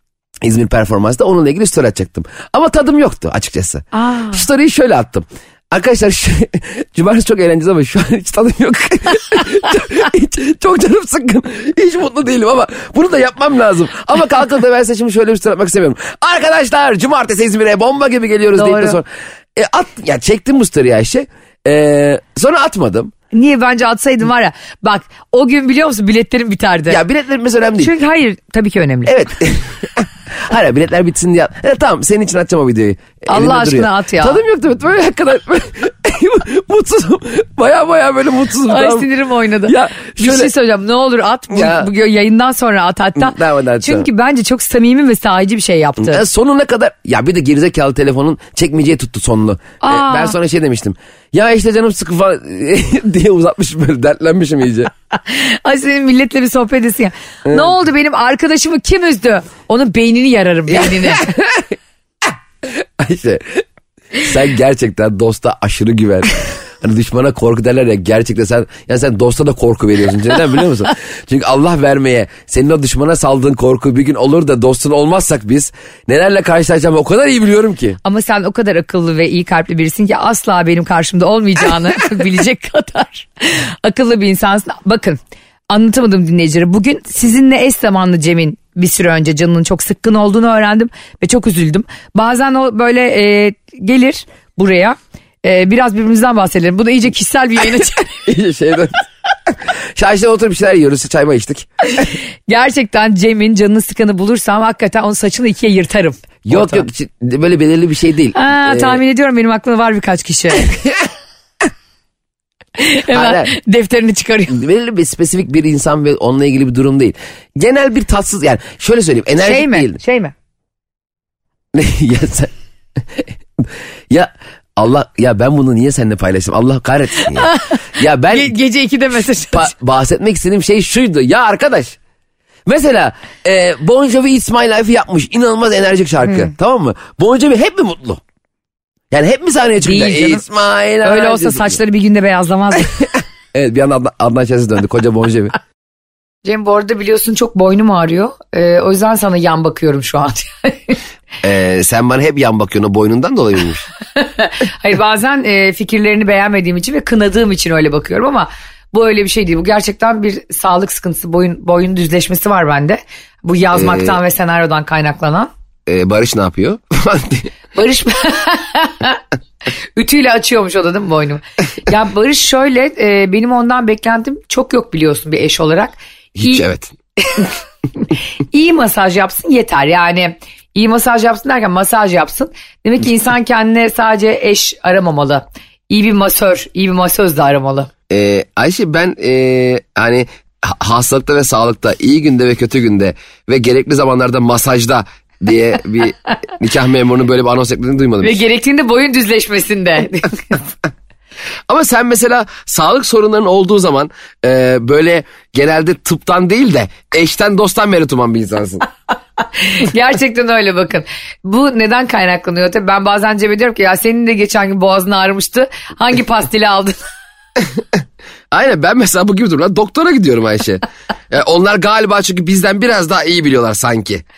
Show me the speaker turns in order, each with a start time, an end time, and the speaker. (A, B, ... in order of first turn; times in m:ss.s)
0:00.4-0:23.1 A
0:03.9-0:04.4 B
0:18.5-0:19.0 B
0:23.3-0:27.0 B
0:26.9-0:27.9 A
0:27.8-0:29.1 B
0:29.0-0:39.1 A
0:33.3-0:34.4 B
0:38.6-0:46.2 B
0:39.6-0:40.5 A
0:41.5-0:41.9 A
0:43.2-0:44.1 A
0:46.0-0:54.9 A
0:49.8-0:50.3 B
0:55.2-1:01.3 B
0:57.4-0:57.7 A
1:00.7-1:01.8 A
1:02.6-1:03.6 A
1:04.2-1:18.0 A
1:18.0-1:25.2 B
1:25.7-1:38.2 B
1:38.2-1:38.9 A
1:39.5-1:41.7 A
1:41.9-1:46.8 B
1:46.4-1:49.0 A
1:48.3-1:50.7 B
1:52.8-1:54.6 B
1:53.1-1:53.5 A
1:54.5-2:00.0 A
1:59.4-2:00.3 B
2:01.7-2:08.5 A
2:07.3-2:09.7 B
2:09.5-2:12.0 A
2:12.6-2:18.2 A
2:19.1-2:21.8 A
2:19.8-2:20.4 B
2:21.0-2:23.0 B
2:23.5-2:25.6 A
2:26.4-2:31.0 B
2:31.4-2:33.9 A
2:34.2-2:45.5 B
2:43.7-2:44.2 A
2:45.9-2:47.5 A
2:47.7-2:49.2 B
2:50.0-2:56.6 B
2:56.4-2:56.9 A
2:58.5-3:07.9 B
3:08.1-3:18.4 A
3:18.2-3:20.6 B
3:21.7-3:28.8 A
3:29.6-3:37.0 B
3:38.5-3:44.2 A